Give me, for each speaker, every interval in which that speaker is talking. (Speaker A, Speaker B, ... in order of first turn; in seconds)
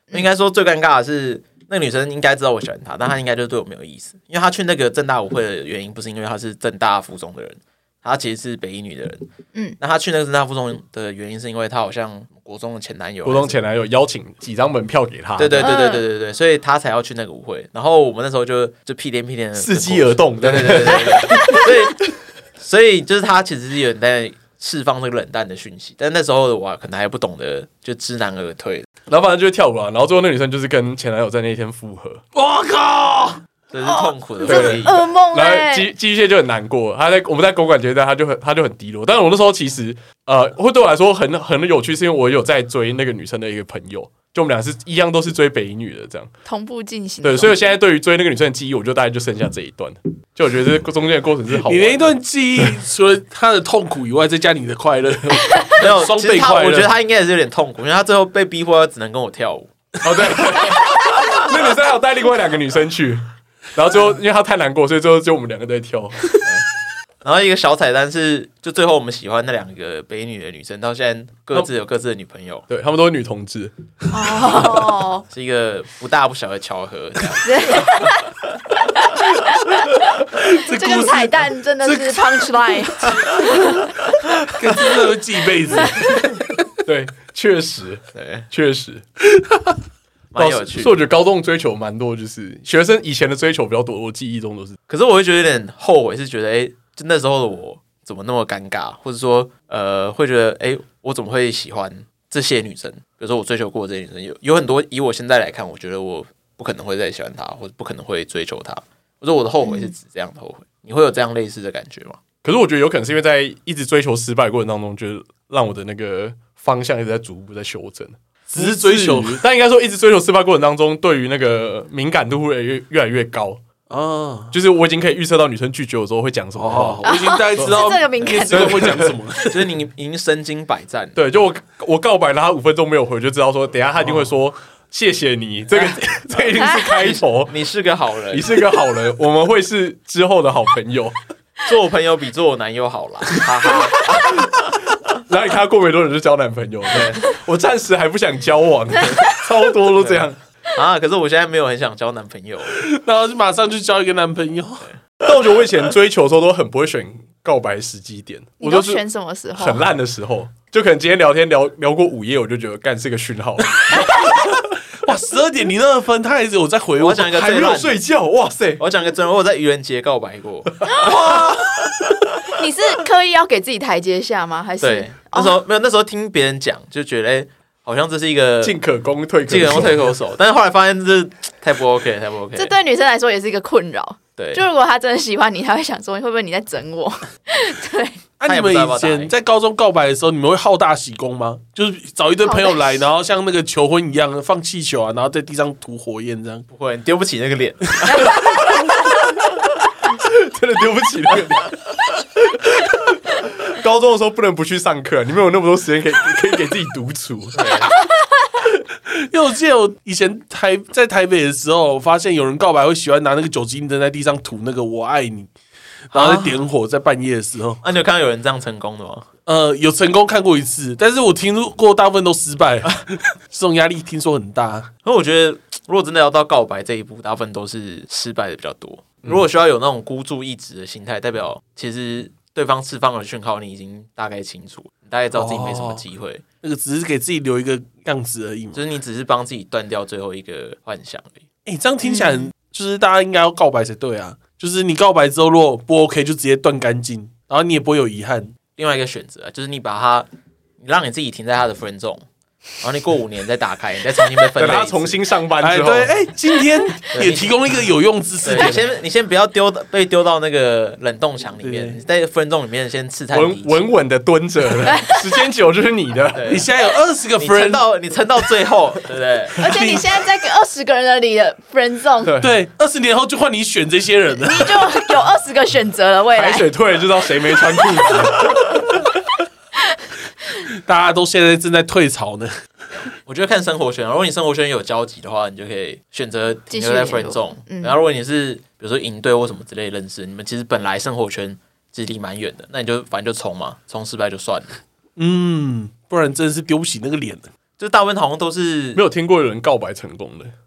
Speaker A: 0.1-9.2, 9.8-13.6, 15.4-28.9, 33.7-35.0, 55.8-59.7, 67.2-72.7, 75.3-78.1, 88.1-88.5, 90.3-90.9, 94.9-112.2, 129.5-131.1, 135.7-136.1, 137.0-138.5, 141.6-144.5, 146.9-147.3, 150.7-152.8, 167.0-167.9, 168.8-170.9, 174.8-178.7, 179.5-182.7, 184.4-184.6, 188.4-189.3, 196.7-198.5, 207.6-207.9, 216.1-216.6, 217.8-219.3, 225.0-236.4, 238.7-241.4, 248.8-250.3, 250.8-252.2, 252.8-255.2, 257.1-257.6, 258.4-263.8, 266.3-266.7, 267.4-269.6, 283.2-294.8, 297.8-299.0
Speaker B: 13.2-15.7, 19.5-22.1, 29.1-32.2, 34.4-46.3, 47.2-52.6, 60.0-66.5, 72.7-73.7, 86.8-89.0, 90.3-94.8, 112.4-123.6, 124.5-127.0, 127.6-127.8, 128.5-129.2, 131.2-137.5, 138.3-141.2, 145.2-150.4, 155.2-159.0, 159.5-164.7, 167.2-168.8, 170.9-171.5, 178.6-180.1, 198.3-198.9, 200.2-201.8, 202.5-207.8, 254.6-256.1, 263.3-266.5, 272.2-272.6, 276.3-279.0, 298.9-300.5
Speaker C: 15.6-16.0, 21.3-21.6, 33.8-35.9, 46.4-47.5, 74.1-75.2, 77.4-78.2, 79.0-80.0, 80.7-83.8, 109.6-109.9, 127.0-128.9, 149.0-149.3, 158.6-159.8, 170.9-171.6, 172.6-175.6, 182.6-188.2, 192.4-192.9, 198.1-198.5, 207.9-208.4, 242.0-242.5, 264.9-265.2, 269.6-272.3, 274.4-276.7, 278.0-278.3, 286.7-287.9
Speaker D: 32.3-33.4, 51.6-56.9, 80.4-82.5, 84.6-86.2, 118.5-119.4, 123.9-124.5, 126.5-129.7, 152.7-154.8, 165.0-167.2, 188.4-196.7, 209.1-215.5, 216.1-217.8, 219.4-224.9, 235.3-236.0, 236.6-238.8, 241.7-248.5, 255.6-258.9, 261.6-261.9, 266.5-267.8, 269.6-270.0, 272.4-274.9, 280.8-282.5, 295.2-297.5